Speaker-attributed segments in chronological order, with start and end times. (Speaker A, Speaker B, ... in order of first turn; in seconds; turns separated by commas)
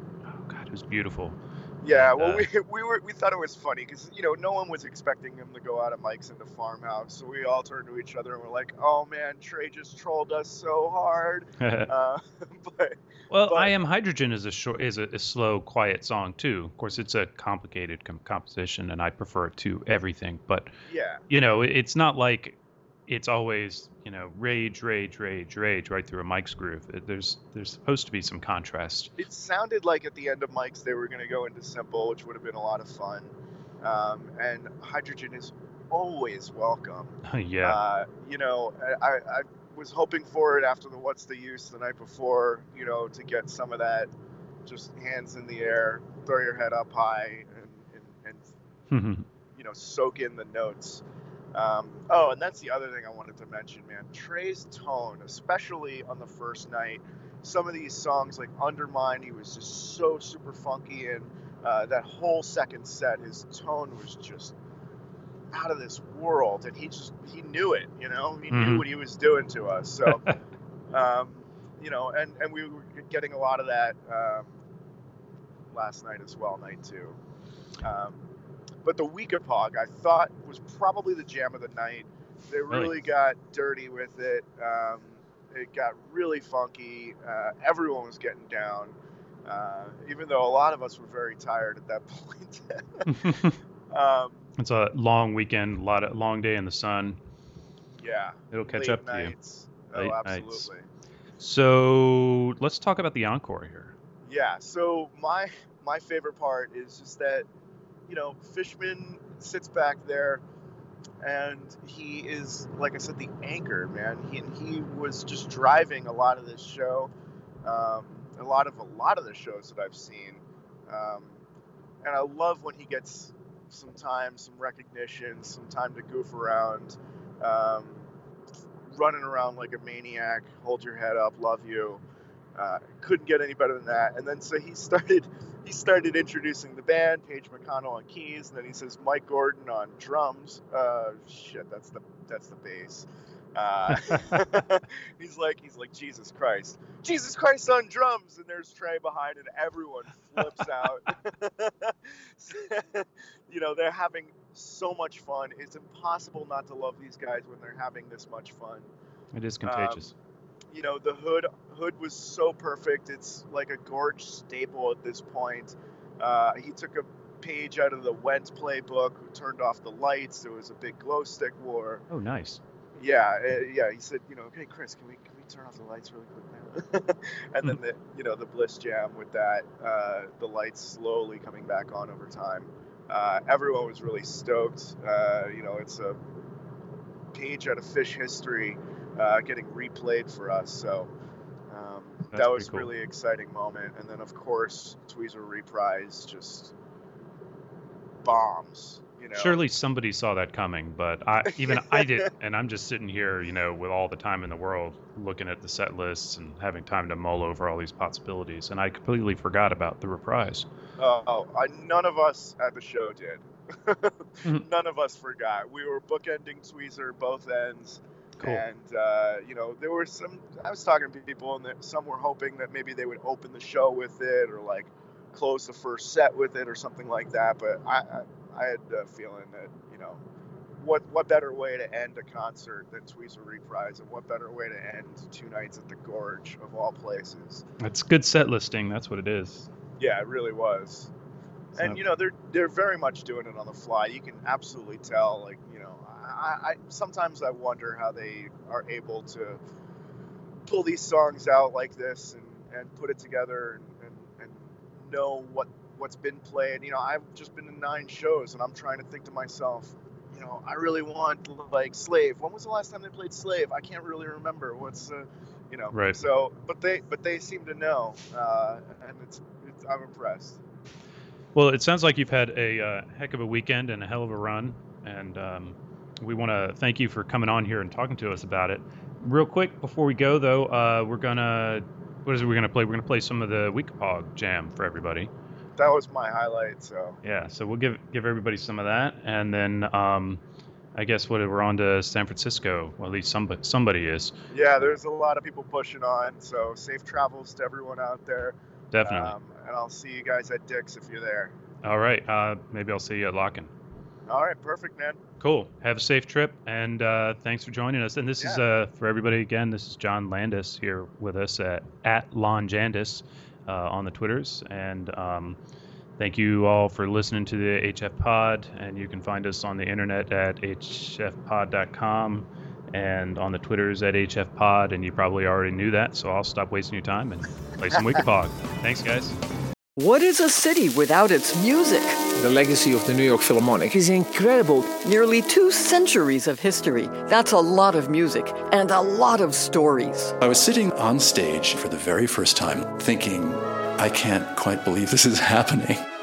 Speaker A: 0.3-2.5, Speaker B: 1.8-13.7, Speaker A: 11.6-11.9, Speaker A: 13.3-20.7, Speaker B: 20.9-21.2, Speaker A: 21.3-29.1, Speaker B: 29.2-44.1, Speaker A: 37.3-37.8, Speaker B: 44.6-48.5, Speaker A: 48.9-49.2, Speaker B: 49.5-51.0, Speaker B: 51.5-64.5, Speaker B: 65.5-70.2, Speaker A: 68.5-68.8, Speaker B: 70.9-74.5, Speaker B: 75.7-77.2, Speaker B: 77.8-78.2, Speaker B: 78.8-93.3, Speaker A: 93.1-93.6, Speaker B: 93.9-94.5, Speaker A: 94.6-97.2, Speaker B: 98.0-100.9, Speaker A: 98.5-99.3, Speaker A: 99.9-100.7, Speaker A: 101.4-103.9, Speaker B: 104.3-107.5, Speaker B: 108.1-110.4, Speaker B: 111.2-117.1, Speaker B: 117.6-121.4, Speaker B: 122.0-128.1, Speaker B: 128.9-132.0, Speaker B: 132.6-158.9, Speaker A: 159.3-160.1, Speaker B: 159.6-160.1, Speaker B: 160.7-172.0, Speaker A: 172.1-172.6, Speaker B: 173.0-186.2, Speaker B: 187.3-191.1, Speaker B: 191.7-196.7, Speaker A: 192.3-192.9, Speaker B: 198.2-199.6, Speaker A: 199.3-210.7, Speaker B: 201.6-202.3, Speaker B: 211.0-230.2, Speaker B: 230.8-237.7, Speaker A: 237.8-239.7, Speaker B: 240.0-241.1, Speaker B: 241.8-249.6, Speaker B: 250.7-270.6, Speaker A: 265.9-266.2, Speaker A: 271.6-285.3, Speaker B: 285.8-287.2, Speaker A: 287.2-290.4, Speaker A: 290.9-294.4, Speaker B: 294.5-301.5, Speaker A: 298.9-299.4, Speaker A: 301.8-303.7, Speaker B: 304.3-305.2, Speaker A: 305.4-315.6, Speaker A: 316.2-329.4, Speaker C: 330.0-332.2, Speaker D: 332.4-334.9, Speaker C: 334.9-340.4, Speaker E: 340.4-346.0